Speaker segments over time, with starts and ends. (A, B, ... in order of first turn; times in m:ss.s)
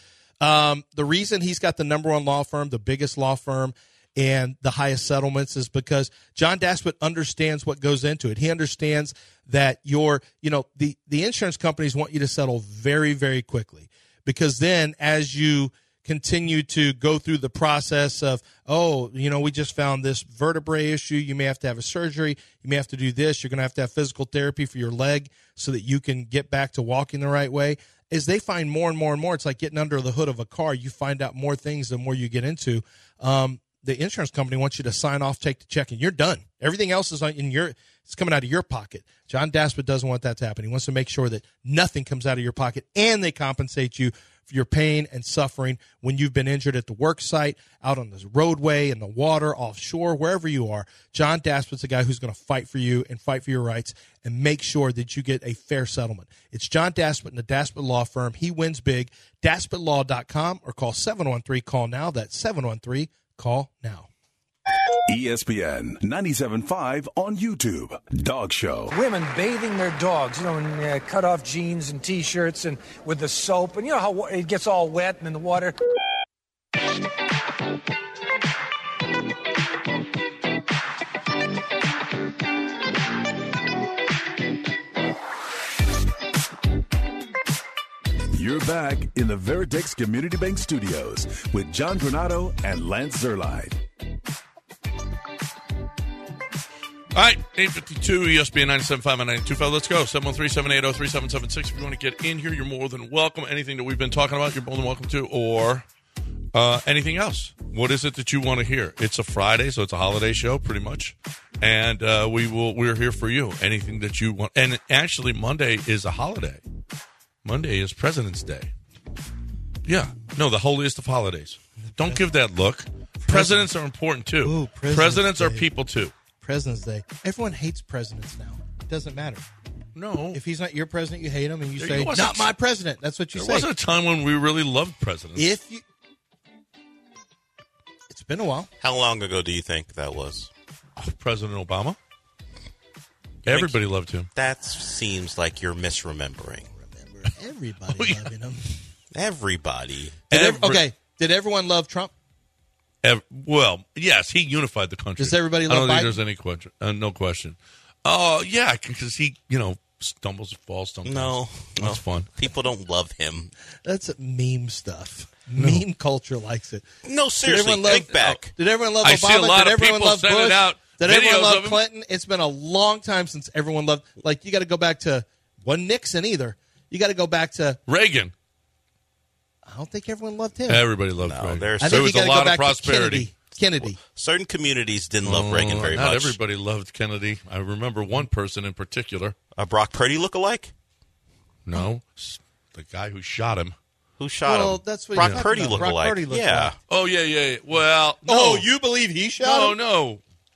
0:00.4-1:04.1 A
1:05.1-1:08.9 B
1:08.9-1:15.8 C
1:28.3-1:33.8 B
1:37.1-1:45.8 D
1:46.5-1:56.6 D
1:57.4-1:58.7 D
1:59.8-2:06.1 D
2:01.8-2:02.2 A
2:03.2-2:03.7 A
2:04.4-2:05.7 A
2:06.4-2:09.4 A
2:10.0-2:10.4 D
2:10.3-2:13.7 A
2:11.8-2:12.5 D
2:13.3-2:15.6 D
2:15.4-2:15.8 A
2:18.1-2:18.7 A
2:18.8-2:20.5 E
2:21.0-2:22.0 D
2:23.4-2:23.8 E
2:23.4-2:24.3 D
2:24.3-2:26.7 E
2:26.7-2:28.8 A
2:27.9-2:28.3 D
2:29.1-2:30.2 E
2:30.3-2:30.8 D
2:30.3-2:32.1 A
2:33.0-2:42.3 D
2:35.2-2:36.2 A
2:41.0-2:43.5 E
2:43.8-2:46.8 A
2:45.6-2:45.8 D
2:47.0-2:48.5 E
2:47.4-2:57.8 A
2:48.1-2:48.4 D
2:49.0-2:51.8 D
2:57.9-2:58.3 D
2:59.6-3:00.8 A
3:00.7-3:03.3 D
3:01.2-3:02.1 E
3:01.8-3:04.0 A
3:04.0-3:06.4 E
3:05.2-3:09.4 D
3:09.5-3:10.7 E
3:11.6-3:13.8 D
3:14.2-3:16.8 E
3:14.4-3:16.7 A
3:15.2-3:15.8 D
3:16.9-3:18.7 D
3:18.2-3:19.8 A
3:19.4-3:20.2 D